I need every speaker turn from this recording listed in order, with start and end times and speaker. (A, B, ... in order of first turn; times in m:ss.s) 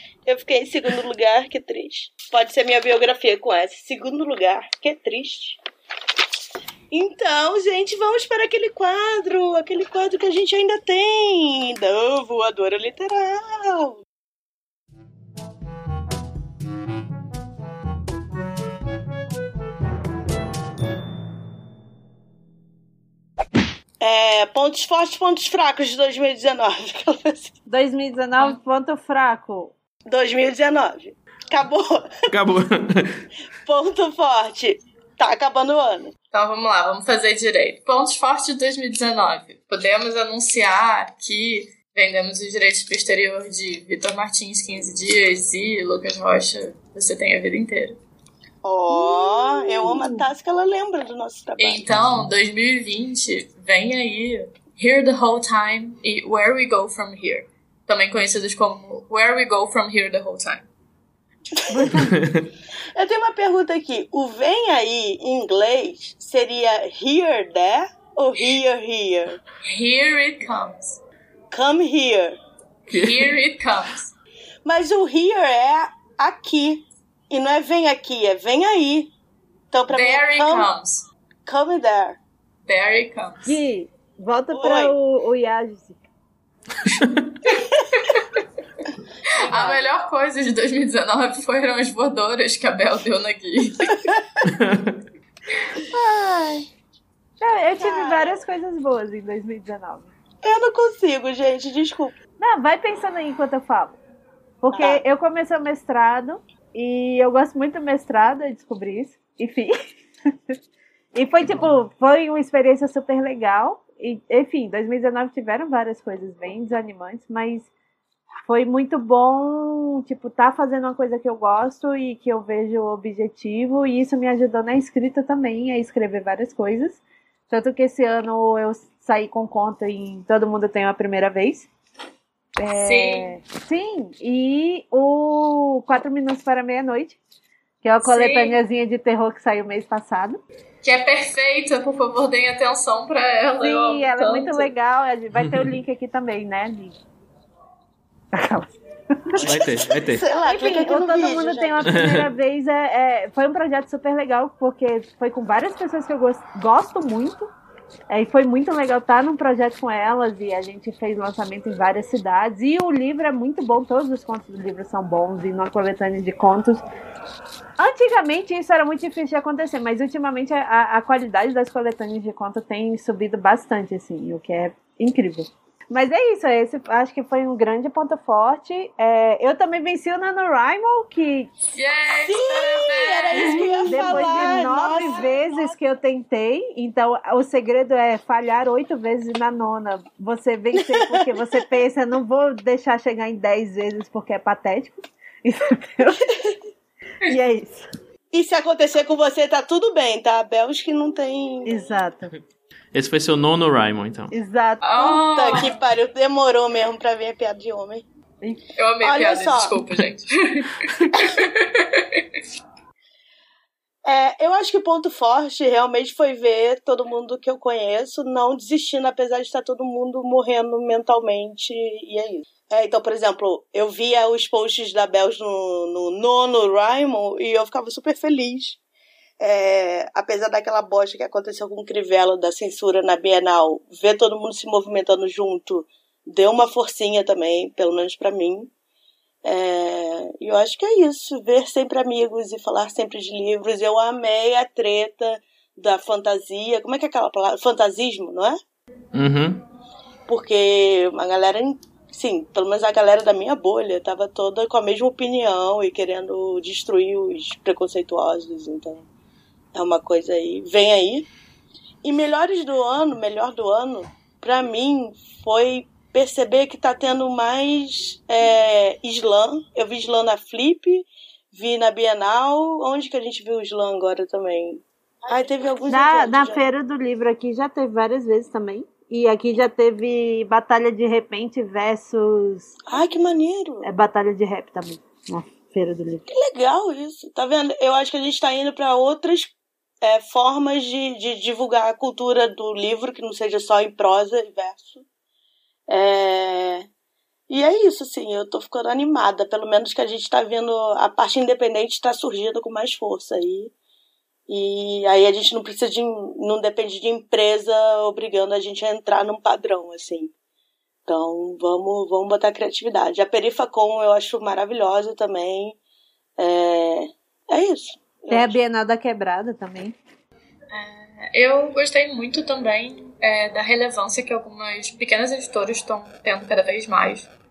0:00.2-0:05.6 A
0:06.9-0:14.0 A
0:24.0-0:27.5 A
0:27.7-0:29.7 B
0:30.1-0:32.1 A
0:32.3-0:33.2 C
0:33.6-0:36.1 A
0:36.3-0:48.0 D
0:48.6-0:51.8 A
0:48.9-0:50.3 B
0:51.6-1:00.7 D
0:51.9-0:52.3 C
1:01.7-1:02.2 B
1:02.1-1:02.5 C
1:02.9-1:09.4 A
1:09.6-1:11.0 D
1:11.5-1:12.4 A
1:12.9-1:13.3 C
1:12.9-1:14.1 D
1:14.6-1:19.1 A
1:19.7-1:20.7 A
1:19.9-1:21.0 D
1:21.4-1:22.2 A
1:22.6-1:23.6 D
1:23.4-1:26.0 B
1:24.5-1:24.9 A
1:26.8-1:27.3 C
1:27.5-1:28.4 D
1:29.4-1:34.2 D
1:29.4-1:29.8 A
1:34.4-1:35.0 C
1:35.9-1:36.7 B
1:37.4-1:40.1 B
1:37.8-1:38.4 A
1:40.4-1:42.1 A
1:42.4-1:44.0 B
1:44.6-1:49.7 B
1:44.7-1:45.0 A
1:51.1-1:57.7 B
1:58.5-2:11.7 B
2:12.6-2:17.2 B
2:12.8-2:13.3 D
2:17.8-2:20.4 B
2:18.0-2:18.6 D
2:20.8-2:24.7 D
2:23.6-2:27.0 B
2:25.4-2:25.7 C
2:28.3-2:28.7 B
2:29.4-2:30.2 C
2:29.4-2:32.0 A
2:30.4-2:37.5 B
2:31.8-2:32.2 C
2:38.1-2:46.8 B
2:47.8-3:01.5 B
3:01.7-3:04.7 D
3:02.2-3:05.7 A
3:03.3-3:16.3 B
3:10.8-3:11.4 A
3:17.2-3:17.9 B
3:18.3-3:21.8 A
3:21.6-3:22.3 B
3:22.9-3:24.3 C
3:24.3-3:25.2 B
3:24.8-3:25.8 D
3:25.3-3:28.0 A
3:28.8-3:32.2 D
3:29.0-3:29.8 A
3:34.0-3:48.8 A
3:49.4-3:58.7 A
3:59.4-4:08.6 A
4:09.1-4:09.6 C
4:10.3-4:19.0 A
4:19.7-4:21.3 A
4:22.0-4:36.6 A
4:35.9-4:42.7 B
4:42.9-4:43.9 A
4:43.8-4:46.3 B
4:46.3-4:55.0 A
4:55.9-4:56.8 A
4:57.5-5:03.7 A
5:04.5-5:10.3 A
5:11.1-5:15.8 A
5:16.4-5:18.6 A
5:18.3-5:20.0 B
5:20.7-5:27.3 D